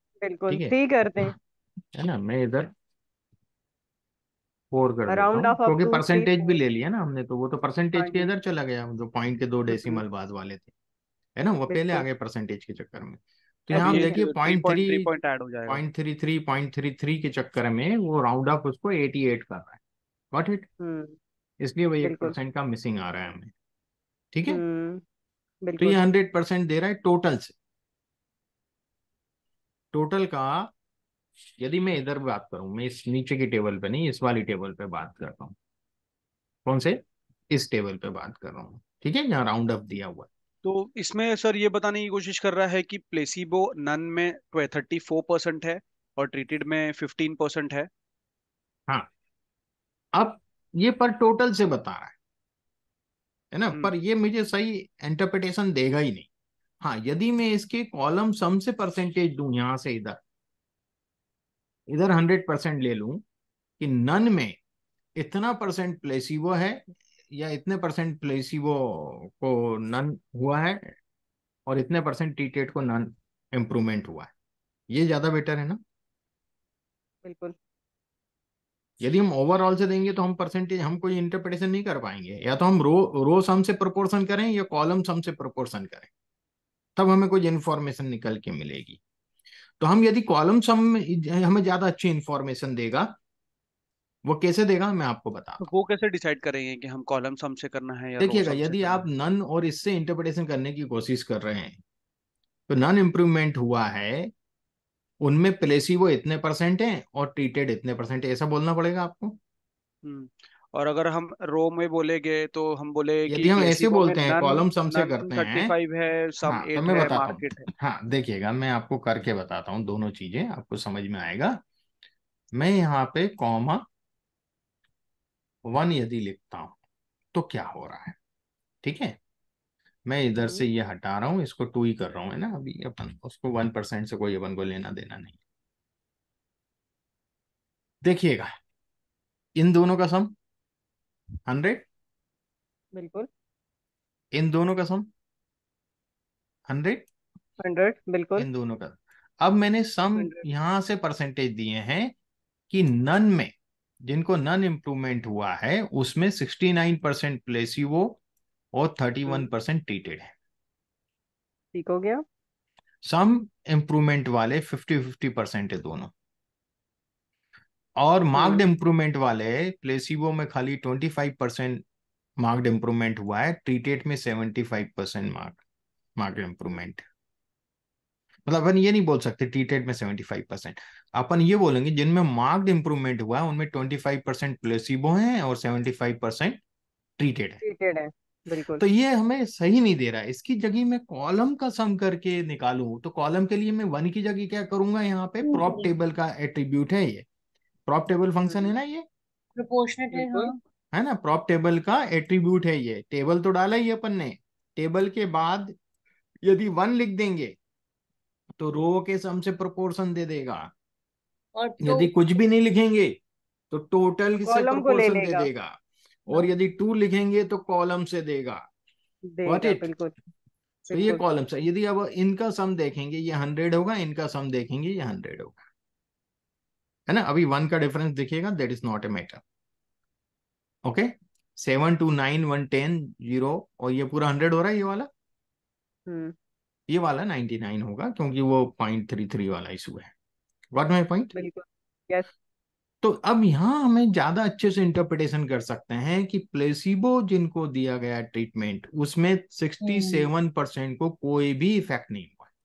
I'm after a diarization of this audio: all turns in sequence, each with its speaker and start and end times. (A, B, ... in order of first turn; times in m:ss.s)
0:00.2-0:01.3 A
0:00.5-0:01.3 B
0:01.9-0:02.7 B
0:04.7-0:10.7 B
0:05.1-0:06.6 A
0:07.9-0:08.3 A
0:09.7-0:10.0 A
0:11.4-0:15.1 B
0:11.7-0:12.0 A
0:13.7-0:14.2 A
0:13.8-0:15.8 C
0:15.7-0:19.8 B
0:20.3-0:20.7 B
0:20.8-0:21.2 A
0:21.6-0:23.5 B
0:22.0-0:22.4 A
0:24.3-0:24.6 B
0:24.5-0:25.0 A
0:25.6-0:26.0 A
0:25.8-0:27.5 B
0:29.9-0:30.7 B
0:31.6-0:35.6 B
0:36.6-0:40.3 B
0:40.6-0:47.9 C
0:50.2-0:52.2 B
0:53.5-0:56.3 B
0:56.8-1:00.2 B
1:01.9-1:03.2 B
1:03.8-1:04.6 B
1:05.2-1:10.9 B
1:11.7-1:14.3 B
1:14.9-1:15.8 B
1:17.2-1:17.5 A
1:19.0-1:26.1 B
1:27.0-1:29.0 B
1:29.8-1:33.1 B
1:34.2-1:35.6 B
1:35.6-1:39.0 C
1:38.2-1:41.8 B
1:42.7-1:44.3 B
1:45.2-1:49.4 B
1:50.0-1:57.7 C
1:53.3-1:55.7 B
1:56.4-2:01.6 B
2:02.5-2:03.8 B
2:05.6-2:06.7 B
2:07.3-2:08.2 B
2:08.8-2:09.2 B
2:10.0-2:15.4 B
2:18.0-2:18.5 B
2:19.6-2:20.3 B
2:21.5-2:21.8 B
2:22.9-2:23.3 A
2:24.3-2:25.1 B
2:26.7-2:27.0 B
2:27.6-2:28.5 A
2:28.4-2:32.1 B
2:30.1-2:30.4 A
2:32.7-2:33.5 B
2:34.0-2:38.2 B
2:38.7-2:40.3 B
2:41.7-2:42.2 A
2:43.0-2:46.1 B
2:48.0-2:51.8 B
2:48.3-2:48.6 A
2:52.4-2:55.6 B
2:56.2-2:57.0 B
2:58.4-3:06.6 B
3:07.2-3:07.6 B
3:07.6-3:08.8 A
3:08.8-3:17.2 B
3:15.4-3:15.9 D
3:17.9-3:19.0 B
3:19.6-3:20.6 D
3:20.1-3:20.5 A
3:20.9-3:25.7 B
3:26.4-3:27.6 B
3:28.6-3:30.7 B
3:31.5-3:32.1 D
3:31.8-3:33.2 B
3:33.7-3:35.8 B
3:34.4-3:35.5 A
3:36.3-3:38.6 B
3:39.3-3:40.1 A
3:39.4-3:39.9 B
3:40.9-3:41.2 A
3:40.9-3:45.6 B
3:47.1-3:49.4 B
3:50.8-3:55.1 B
3:56.1-3:56.3 A
3:56.9-4:00.1 B
4:00.7-4:01.3 B
4:01.3-4:02.3 A
4:03.0-4:12.5 B
4:09.8-4:10.3 D